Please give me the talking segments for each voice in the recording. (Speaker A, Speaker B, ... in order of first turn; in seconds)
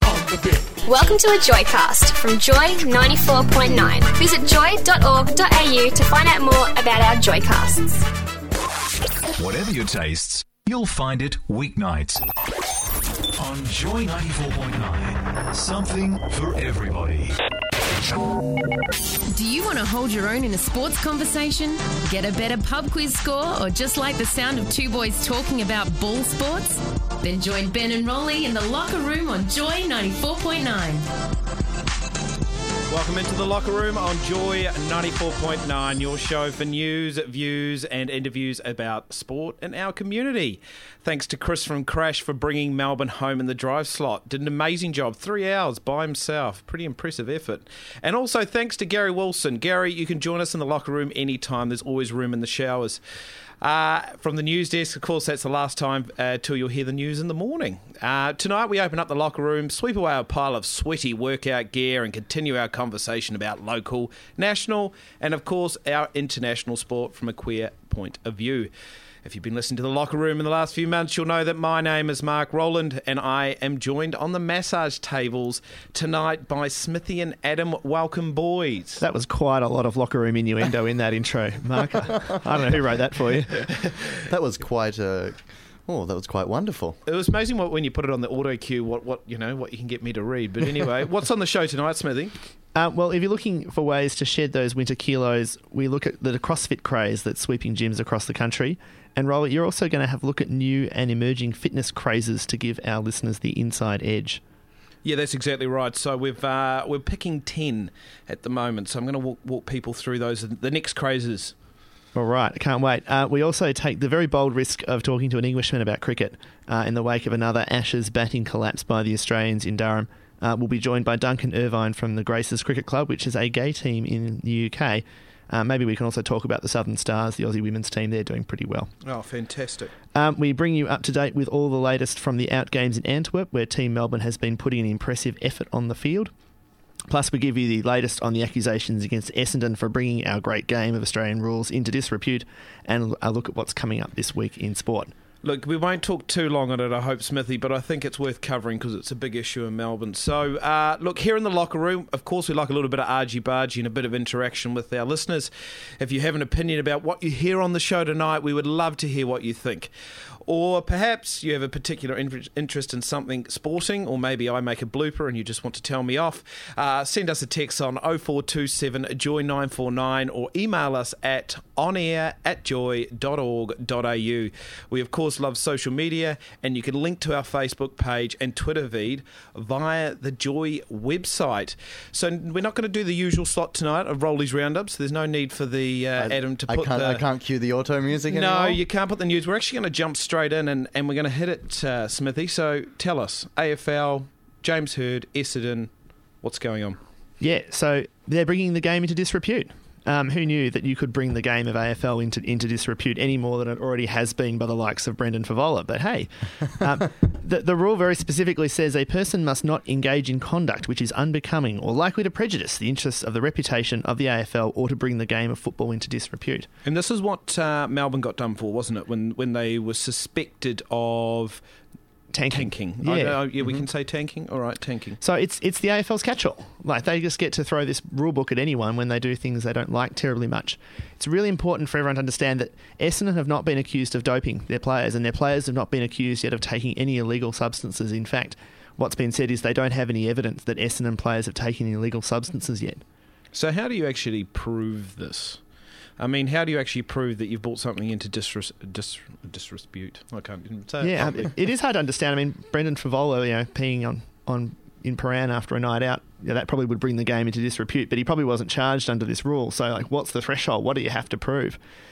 Speaker A: 0.8-8.0
Speaker B: 9.4-12.2, 13.3-17.4
Speaker C: 19.3-31.1
Speaker D: 32.9-53.0, 53.6-68.7, 69.2-79.0, 83.7-84.1, 87.1-92.3, 105.0-111.5, 129.0-129.9, 145.4-159.9, 160.4-187.3, 188.3-195.9, 196.4-197.0, 216.8-221.6, 222.5-225.2, 243.5-245.6, 246.2-251.5
Speaker E: 79.0-83.6, 92.8-104.4, 112.1-128.9, 130.1-136.3, 137.1-145.1, 197.4-216.7, 222.3-223.6, 225.2-243.0, 251.0-261.8
Speaker F: 84.3-87.0, 186.2-188.8